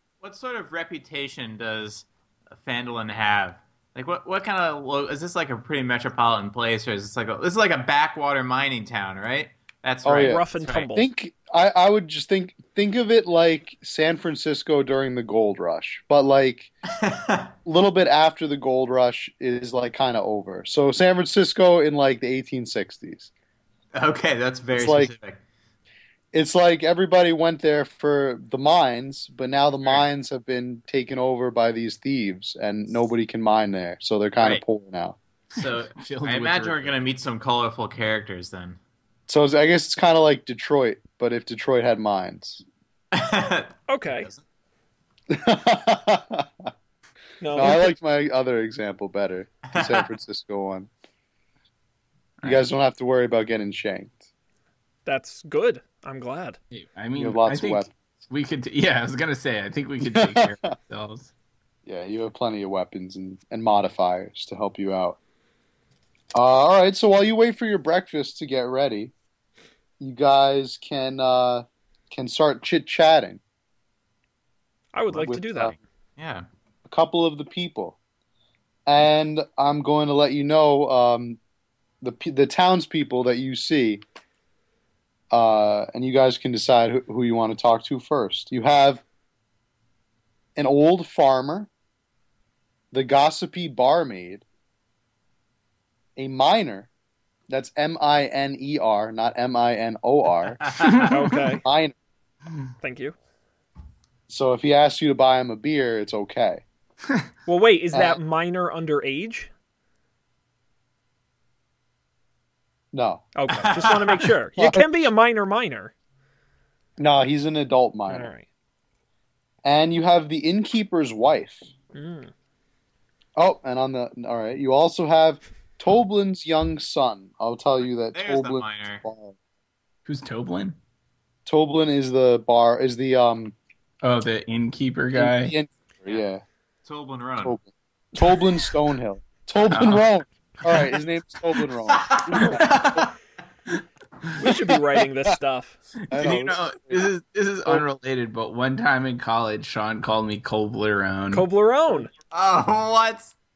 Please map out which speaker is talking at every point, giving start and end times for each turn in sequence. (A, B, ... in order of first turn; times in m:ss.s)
0:00.2-0:10.8 A
0:10.0-0:10.4 B
0:10.2-0:11.1 C
0:10.9-0:16.7 B
0:16.9-0:17.5 A
0:17.6-0:23.3 B
0:23.9-0:25.4 A
0:24.7-0:25.1 B
0:26.3-0:35.2 B
0:35.5-0:38.8 A
0:35.6-0:37.0 D
0:39.3-0:42.6 B
0:43.1-0:44.4 A
0:43.9-0:44.3 C
0:45.3-0:46.7 B
0:47.4-0:47.9 C
0:47.5-0:50.9 B
0:49.7-0:50.0 A
0:52.4-0:54.2 B
0:55.0-0:56.6 C
0:56.7-1:01.3 D
0:57.2-0:57.9 B
1:00.1-1:00.6 B
1:01.8-1:05.2 B
1:06.3-1:09.1 B
1:10.0-1:13.4 B
1:14.9-1:15.7 C
1:15.2-1:15.7 B
1:16.2-1:16.4 A
1:16.8-1:18.0 B
1:18.9-1:21.4 B
1:22.0-1:24.0 B
1:25.3-1:29.0 B
1:30.6-1:31.7 B
1:32.9-1:34.4 B
1:36.2-1:36.9 B
1:37.5-1:40.8 B
1:40.6-1:41.1 A
1:41.1-1:41.6 C
1:41.6-1:41.9 B
1:42.8-1:43.1 C
1:44.3-1:46.6 B
1:47.5-1:49.5 C
1:47.9-1:48.2 B
1:52.9-1:53.2 B
1:53.4-1:55.9 C
1:53.6-1:54.1 A
1:54.6-1:55.1 B
1:57.0-1:58.3 B
1:58.1-1:58.4 C
1:59.6-2:01.6 B
2:01.9-2:02.3 C
2:03.4-2:09.3 B
2:08.1-2:09.0 A
2:10.0-2:10.8 D
2:11.4-2:13.5 B
2:14.0-2:15.5 D
2:15.1-2:16.4 B
2:16.8-2:17.6 A
2:17.4-2:23.0 B
2:18.1-2:18.4 C
2:19.7-2:20.0 D
2:21.9-2:23.0 A
2:22.3-2:23.0 D
2:24.4-2:25.8 C
2:26.0-2:31.4 D
2:26.1-2:27.1 B
2:31.3-2:32.1 C
2:32.3-2:33.3 A